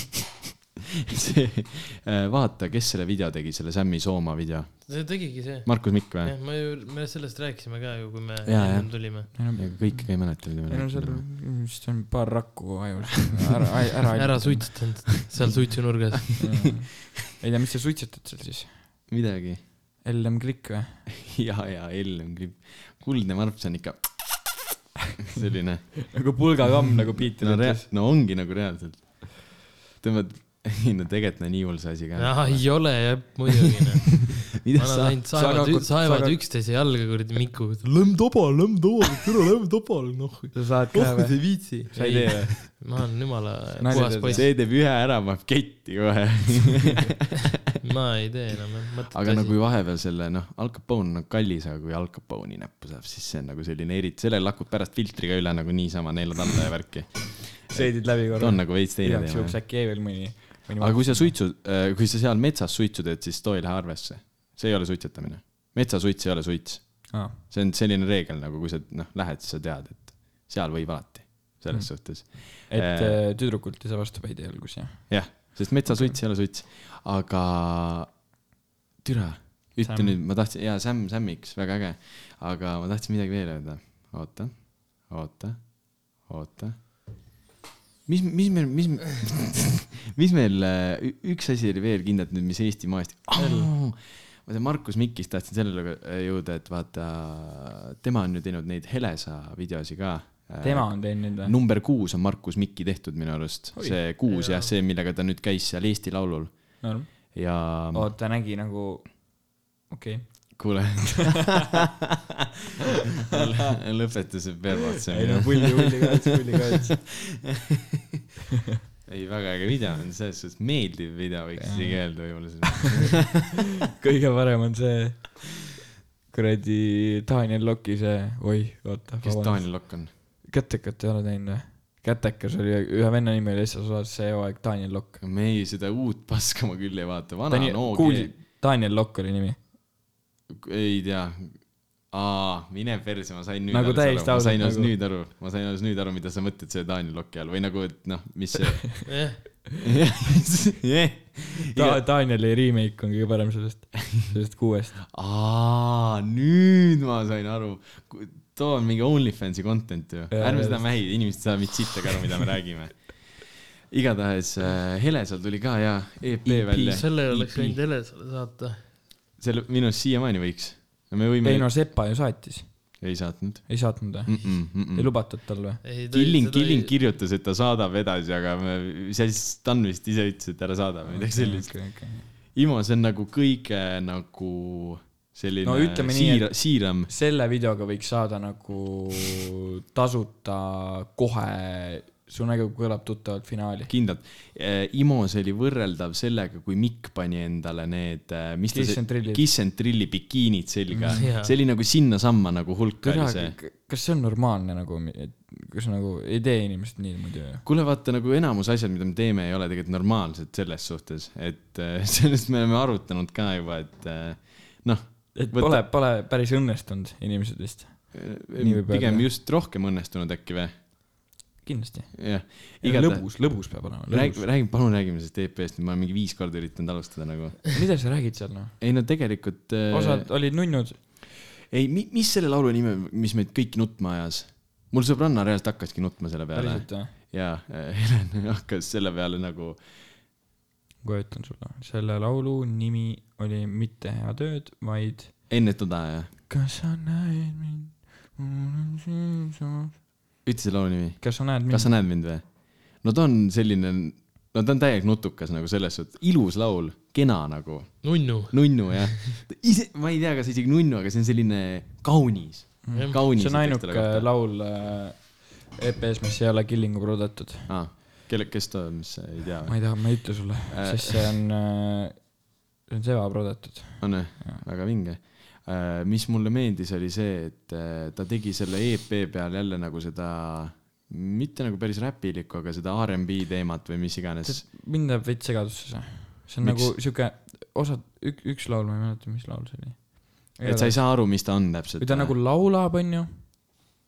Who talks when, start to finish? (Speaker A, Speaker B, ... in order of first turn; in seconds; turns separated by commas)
Speaker A: 1.1-6.3, Speaker B: 4.9-9.3, Speaker A: 8.4-11.2, Speaker C: 9.3-15.1, Speaker B: 14.1-16.7, Speaker C: 16.4-19.0, Speaker A: 19.1-19.6, Speaker C: 20.0-21.1, Speaker A: 21.2-24.6, Speaker A: 25.2-26.1, Speaker C: 26.1-27.9, Speaker A: 26.8-33.5, Speaker B: 32.2-40.5, Speaker A: 34.6-35.2, Speaker C: 35.3-36.4, Speaker A: 39.0-39.3, Speaker C: 40.5-42.8, Speaker A: 40.9-42.5, Speaker B: 41.8-44.5, Speaker C: 43.8-44.4, Speaker A: 43.9-47.5, Speaker B: 47.8-49.6, Speaker A: 49.1-59.6, Speaker C: 57.7-61.4, Speaker A: 60.8-73.2, Speaker C: 67.1-67.4, Speaker C: 71.7-76.2, Speaker A: 75.1-78.2, Speaker A: 79.0-87.2, Speaker C: 79.8-80.2, Speaker A: 88.0-108.1, Speaker C: 93.3-93.7, Speaker C: 100.6-101.5, Speaker C: 103.7-104.0, Speaker B: 104.3-104.7, Speaker C: 106.8-111.0, Speaker A: 110.5-111.8, Speaker A: 113.3-116.3, Speaker C: 115.1-117.1, Speaker A: 119.0-123.6, Speaker C: 121.6-123.2, Speaker C: 123.9-125.7, Speaker C: 126.3-135.2, Speaker A: 129.2-130.1, Speaker A: 135.2-138.3, Speaker C: 137.5-139.6, Speaker A: 140.5-149.2, Speaker C: 143.7-144.9, Speaker B: 149.1-149.6, Speaker A: 149.8-152.0, Speaker C: 151.7-155.0, Speaker A: 155.1-167.8, Speaker C: 160.3-160.8, Speaker C: 166.4-167.0, Speaker B: 166.8-168.9, Speaker A: 169.4-171.8, Speaker C: 171.4-173.2, Speaker A: 173.0-175.2, Speaker C: 173.7-175.8, Speaker B: 175.8-177.0, Speaker A: 176.1-187.1, Speaker C: 181.1-182.3, Speaker C: 185.6-193.9, Speaker A: 193.9-203.6, Speaker C: 198.7-199.4, Speaker C: 200.9-201.3, Speaker B: 201.1-201.6, Speaker C: 203.0-207.6, Speaker A: 207.6-215.8, Speaker C: 215.3-219.3, Speaker A: 218.1-220.7, Speaker C: 221.6-224.5, Speaker A: 222.1-227.8, Speaker C: 227.7-228.8, Speaker A: 228.8-230.3, Speaker C: 229.9-231.0, Speaker A: 231.7-239.8, Speaker C: 236.5-237.1, Speaker C: 241.0-245.5, Speaker A: 245.5-246.3, Speaker C: 246.5-249.9, Speaker A: 250.4-264.3, Speaker C: 251.2-252.0, Speaker B: 258.0-259.4, Speaker C: 262.8-267.8, Speaker B: 262.9-263.2, Speaker A: 267.7-271.4, Speaker C: 269.7-274.6, Speaker A: 274.0-284.7, Speaker C: 284.4-293.7, Speaker A: 286.6-286.9, Speaker A: 290.6-292.3